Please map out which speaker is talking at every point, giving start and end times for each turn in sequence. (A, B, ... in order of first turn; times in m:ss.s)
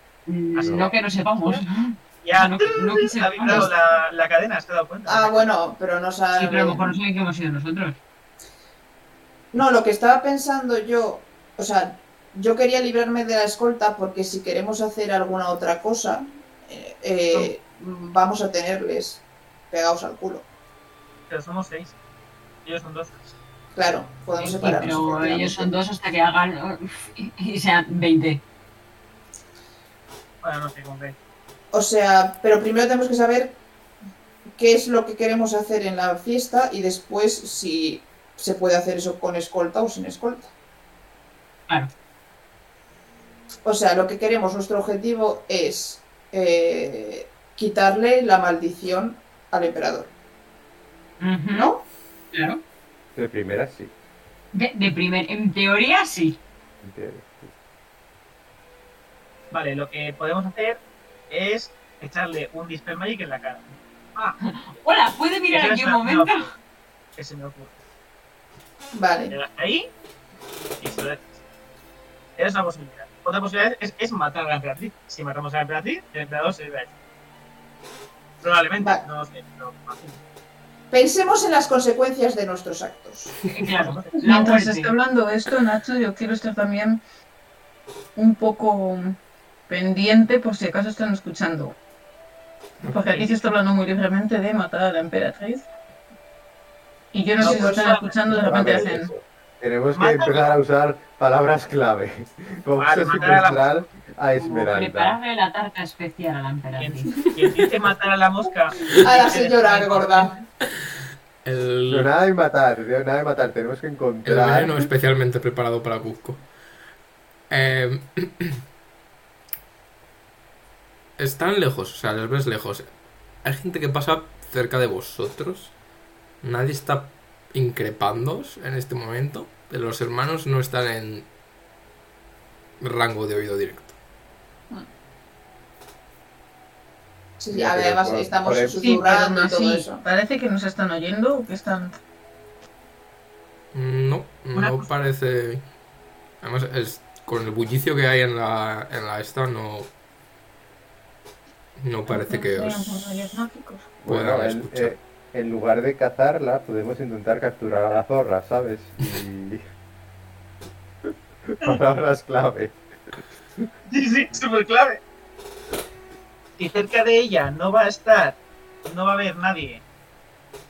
0:00.3-0:03.7 A
0:00.6-0:01.6 B
0:00.6-0:00.9 C
0:02.2-0:05.5 B
0:05.1-0:06.9 D
0:06.4-0:08.0 A
0:09.5-0:20.4 D
0:21.3-0:21.9 B
0:22.6-0:23.2 B
0:23.7-0:25.7 D
0:24.4-0:28.4 A
0:30.4-0:31.2 B
0:31.7-0:33.6 D
0:34.6-0:40.5 D
0:43.6-0:50.1 D
0:51.2-0:51.7 A
0:51.5-0:51.8 D
0:52.3-0:52.6 A
0:53.2-0:53.9 C
0:54.5-0:56.4 A
0:56.8-0:57.5 C
0:59.5-1:00.8 B
1:01.3-1:04.4 B
1:04.4-1:06.5 A
1:05.5-1:06.5 B
1:07.2-1:07.8 B
1:08.9-1:09.3 D
1:09.3-1:09.9 B
1:10.8-1:11.4 B
1:12.4-1:16.9 B
1:18.4-1:20.2 B
1:20.9-1:23.4 D
1:23.4-1:25.0 A
1:23.7-1:24.1 B
1:24.2-1:27.0 E
1:28.2-1:31.8 E
1:32.8-1:35.6 E
1:33.1-1:33.4 B
1:37.1-1:39.1 E
1:37.4-1:38.9 B
1:37.4-1:37.9 D
1:38.3-1:45.2 C
1:39.9-1:40.6 B
1:42.8-1:43.7 B
1:44.4-1:47.1 A
1:46.8-1:50.4 B
1:49.0-1:50.3 D
1:51.4-1:52.1 F
1:51.9-1:54.8 C
1:54.2-1:56.4 F
1:57.5-1:58.6 F
2:01.2-2:02.9 F
2:03.4-2:05.7 F
2:06.4-2:11.3 F
2:12.8-2:13.9 F
2:17.4-2:20.0 D
2:17.5-2:19.0 C
2:18.8-2:22.0 E
2:23.7-2:25.6 F
2:24.5-2:24.9 B
2:26.4-2:29.9 F
2:31.8-2:33.1 F
2:32.1-2:34.0 E
2:34.0-2:39.6 C
2:34.1-2:35.0 F
2:41.5-2:42.8 C
2:43.9-2:45.0 B
2:46.6-2:49.8 B